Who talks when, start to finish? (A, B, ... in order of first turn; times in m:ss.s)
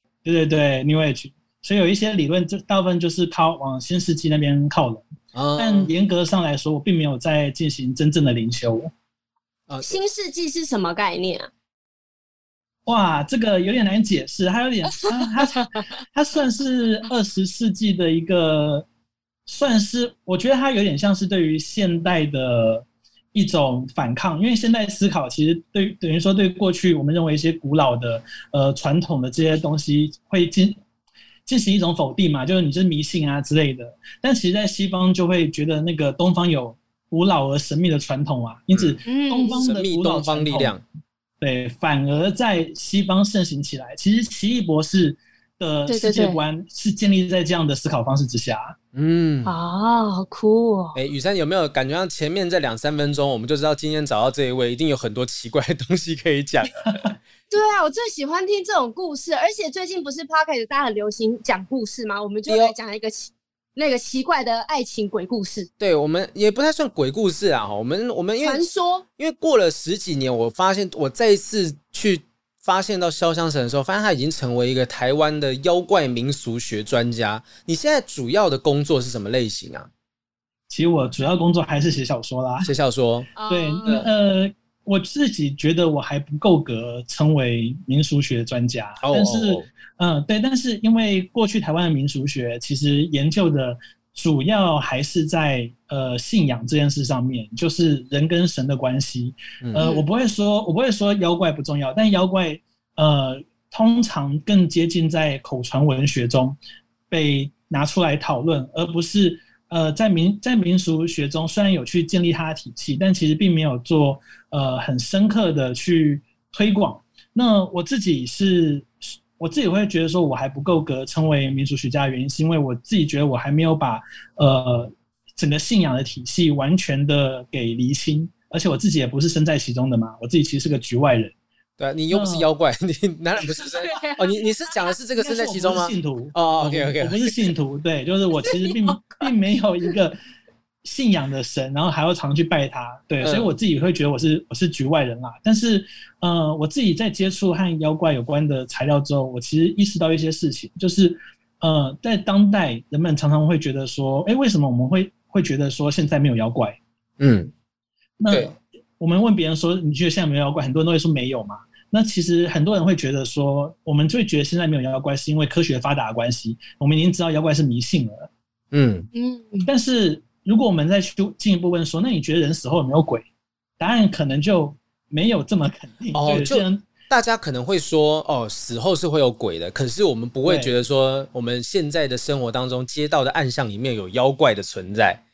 0:00.2-0:08.9 A
0:05.3-0:05.9 B
0:09.7-0:10.0 B
0:09.8-0:11.5 C
0:12.8-0:18.8 A
0:19.4-0:30.8 A
0:31.4-0:40.8 A
0:38.7-0:40.8 B
0:39.0-0:39.6 C
0:41.4-0:48.8 A
0:45.9-0:46.4 C
0:48.9-0:49.5 B
0:49.4-0:51.0 C
0:50.9-0:56.8 B
0:57.5-1:05.7 C
1:02.5-1:02.7 B
1:05.8-1:08.6 B
1:08.4-1:09.0 C
1:09.2-1:19.9 B
1:20.7-1:22.7 A
1:22.6-1:23.3 B
1:23.4-1:24.0 C
1:23.5-1:46.6 A
1:29.0-1:29.7 B
1:39.6-1:39.9 B
1:39.8-1:40.0 C
1:47.1-2:11.3 A
2:11.8-2:17.3 B
2:12.1-2:12.5 A
2:13.4-2:14.9 C
2:15.2-2:20.2 A
2:18.4-2:19.3 C
2:20.8-2:36.8 A
2:23.2-2:23.5 B
2:37.2-2:37.5 B
2:38.2-2:48.3 A
2:48.7-2:49.1 B
2:49.1-2:49.7 C
2:49.6-2:53.2 A
2:53.8-2:56.8 A
2:56.1-3:05.2 B
3:00.4-3:00.7 A